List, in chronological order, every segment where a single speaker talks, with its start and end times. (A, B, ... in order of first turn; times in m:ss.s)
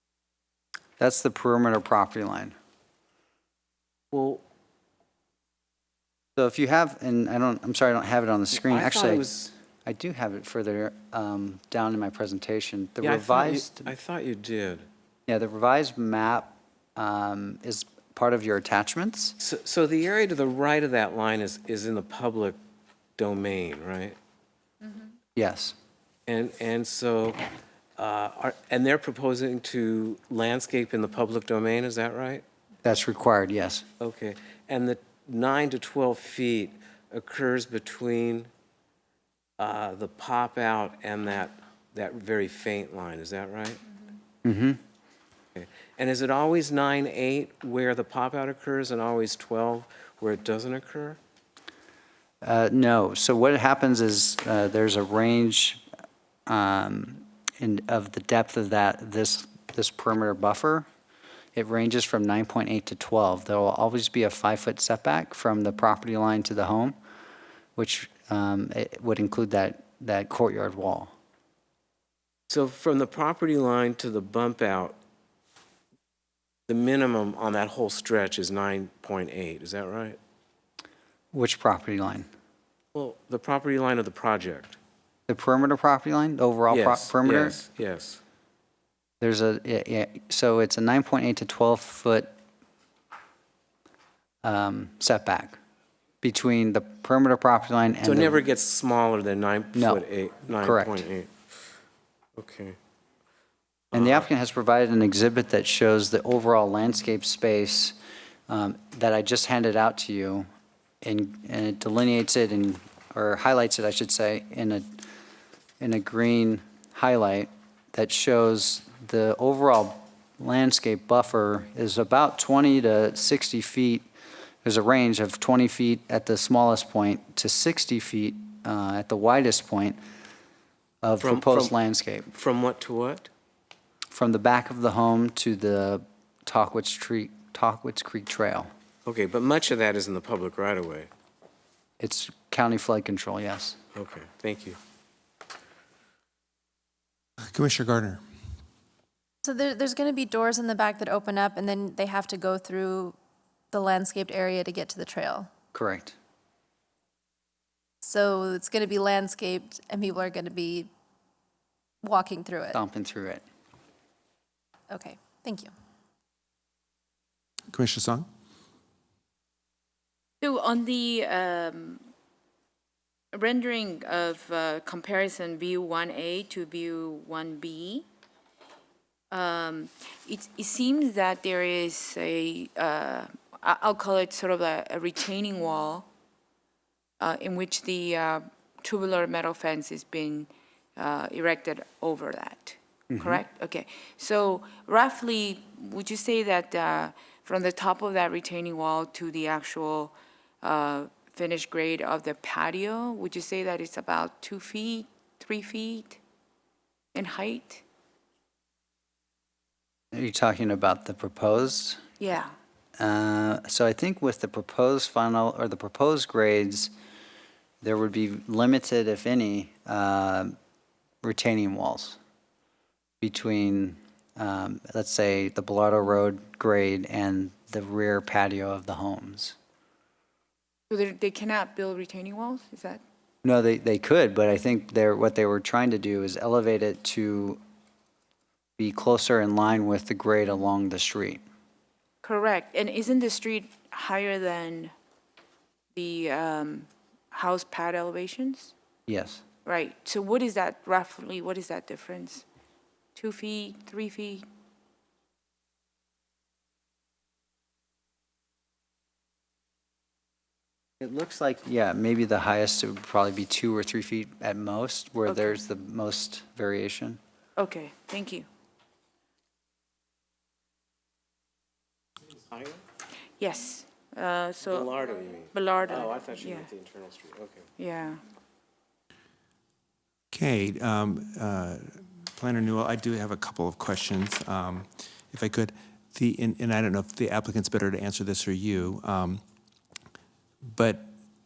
0:01.0-0:02.5 A
0:04.1-0:04.4 B
0:06.4-0:09.3 A
0:08.5-0:09.5 B
0:09.8-0:13.9 A
0:13.0-0:14.9 B
0:15.3-0:19.4 A
0:19.4-0:22.6 B
0:23.2-0:24.2 B
0:25.4-0:25.8 A
0:26.3-0:27.4 B
0:28.0-0:32.4 B
0:32.8-0:33.8 A
0:34.0-0:38.5 B
0:39.6-0:43.8 B
0:44.4-0:44.8 A
0:45.6-0:51.2 B
0:52.4-0:55.8 A
0:56.5-1:00.9 A
1:01.6-1:07.0 A
1:07.8-1:11.1 A
1:12.5-1:15.0 B
1:16.7-1:20.2 B
1:21.3-1:22.3 A
1:22.9-1:24.8 B
1:25.3-1:27.6 A
1:26.7-1:28.2 B
1:29.2-1:32.3 A
1:34.4-1:35.6 A
1:36.2-1:38.4 A
1:38.0-1:41.3 B
1:39.8-1:40.0 A
1:40.6-1:41.0 A
1:42.4-1:42.8 B
1:43.9-1:44.3 B
1:43.9-1:48.0 A
1:48.5-1:50.5 A
1:51.0-1:55.1 A
1:55.8-2:04.1 A
2:04.6-2:10.0 A
2:11.0-2:12.3 A
2:11.2-2:11.7 B
2:12.3-2:13.3 B
2:14.1-2:18.7 A
2:19.1-2:21.1 B
2:22.0-2:23.8 A
2:24.0-2:24.8 B
2:27.5-2:28.2 C
2:29.4-2:33.2 D
2:33.7-2:35.5 D
2:35.7-2:36.2 A
2:38.0-2:40.9 D
2:42.0-2:42.8 D
2:42.7-2:43.4 A
2:44.9-2:45.7 D
2:47.7-2:48.3 C
2:50.4-2:52.1 E
2:53.3-2:58.1 E
2:59.3-3:06.1 E
3:07.2-3:26.2 E
3:13.1-3:13.4 A
3:27.1-3:27.8 E
3:30.1-3:32.0 A
3:32.2-3:32.5 E
3:33.0-3:36.9 A
3:37.8-3:40.6 A
3:41.2-3:42.2 A
3:43.2-3:49.6 A
3:50.9-3:53.0 E
3:53.4-3:57.6 A
3:58.8-4:01.4 A
4:02.2-4:04.9 E
4:06.0-4:08.7 E
4:09.1-4:09.4 A
4:09.6-4:12.4 E
4:13.2-4:14.4 E
4:21.0-4:27.2 A
4:25.3-4:25.6 E
4:27.6-4:28.5 E
4:32.5-4:32.8 B
4:33.4-4:34.9 E
4:34.6-4:37.7 B
4:35.5-4:36.7 E
4:37.8-4:38.2 E
4:40.3-4:49.4 C
4:50.7-4:51.1 C